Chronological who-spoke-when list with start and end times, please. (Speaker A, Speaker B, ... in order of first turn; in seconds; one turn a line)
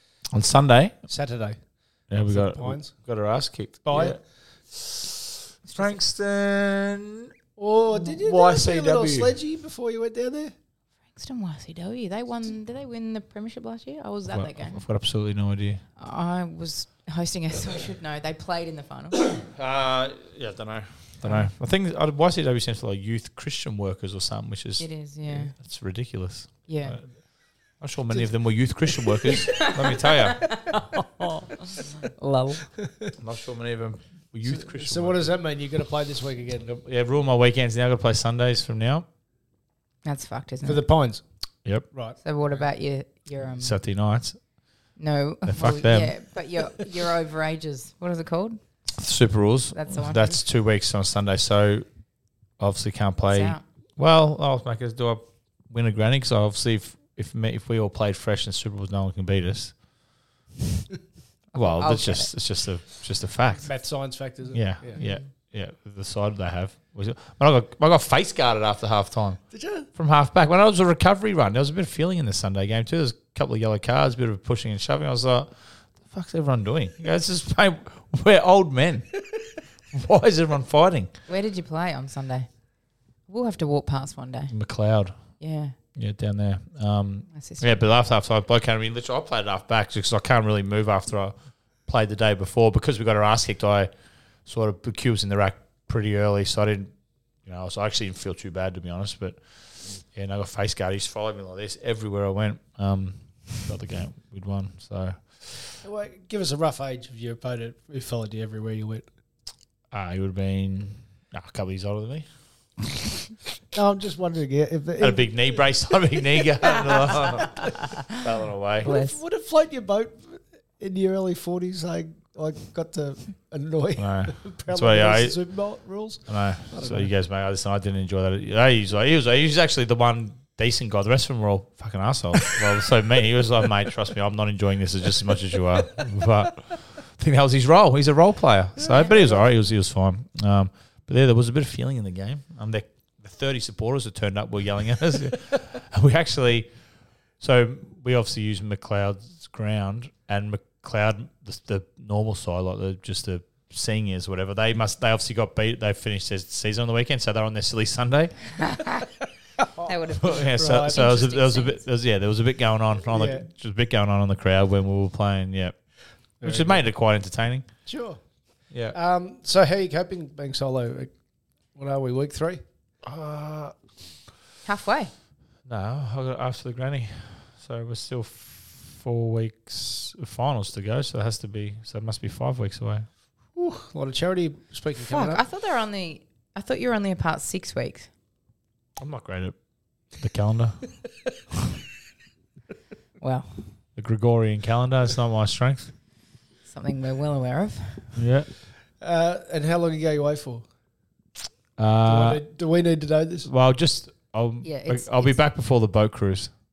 Speaker A: 0.3-1.0
Speaker B: 1.1-1.6
Speaker A: 2.1-4.2
Speaker B: 2.2-3.0
Speaker B: 3.8-4.2
Speaker A: 4.7-5.2
Speaker C: 5.7-6.0
Speaker A: 5.7-7.3
Speaker B: 7.6-10.5
Speaker A: 8.0-9.3
Speaker C: 11.2-14.8
Speaker A: 14.3-15.8
Speaker C: 16.0-19.2
Speaker A: 19.3-27.1
Speaker C: 21.2-21.5
Speaker C: 24.8-25.5
Speaker C: 26.7-27.0
Speaker A: 27.8-30.5
Speaker C: 29.3-32.7
Speaker B: 32.8-33.1
Speaker A: 33.2-35.3
Speaker B: 34.5-36.8
Speaker A: 36.8-39.0
Speaker C: 40.0-40.8
Speaker B: 40.6-41.2
Speaker B: 41.9-42.2
Speaker C: 42.2-43.8
Speaker A: 43.6-44.4
Speaker C: 45.0-48.6
Speaker A: 45.5-46.1
Speaker A: 49.0-51.9
Speaker C: 49.7-50.3
Speaker A: 52.6-59.7
Speaker C: 53.3-53.6
Speaker A: 61.5-63.7
Speaker C: 61.5-62.3
Speaker B: 63.6-65.0
Speaker A: 64.5-69.4
Speaker C: 65.0-65.2
Speaker B: 69.5-69.9
Speaker A: 70.0-79.3
Speaker A: 79.9-81.1
Speaker C: 81.3-82.5
Speaker C: 83.3-84.5
Speaker A: 84.5-85.2
Speaker C: 85.4-85.7
Speaker A: 86.0-91.3
Speaker C: 87.3-87.7
Speaker A: 91.8-93.9
Speaker A: 94.5-96.9
Speaker A: 97.5-99.4
Speaker A: 100.1-105.6
Speaker B: 105.8-109.1
Speaker A: 109.9-112.3
Speaker B: 113.7-115.6
Speaker A: 115.0-118.9
Speaker B: 116.2-117.7
Speaker B: 118.8-127.1
Speaker C: 118.8-119.2
Speaker A: 124.0-125.4
Speaker A: 126.3-146.7
Speaker B: 139.0-139.4
Speaker A: 147.4-158.4
Speaker C: 158.6-159.1
Speaker B: 159.6-159.9
Speaker C: 159.8-161.8
Speaker A: 160.2-165.7
Speaker B: 160.5-161.0
Speaker B: 163.1-163.4
Speaker A: 166.4-167.7
Speaker B: 166.4-166.8
Speaker B: 167.8-168.2
Speaker A: 168.7-169.0
Speaker B: 168.9-171.1
Speaker B: 171.7-172.6
Speaker A: 173.1-173.7
Speaker C: 174.7-175.1
Speaker A: 175.7-183.1
Speaker B: 183.5-185.4
Speaker C: 185.0-188.1
Speaker A: 189.0-189.5
Speaker A: 190.2-190.9
Speaker C: 193.2-193.6
Speaker A: 194.0-195.9
Speaker C: 196.7-198.1
Speaker A: 198.2-198.5
Speaker B: 199.0-200.7
Speaker A: 201.8-202.4
Speaker B: 202.0-203.5
Speaker A: 203.5-206.5
Speaker C: 204.6-205.4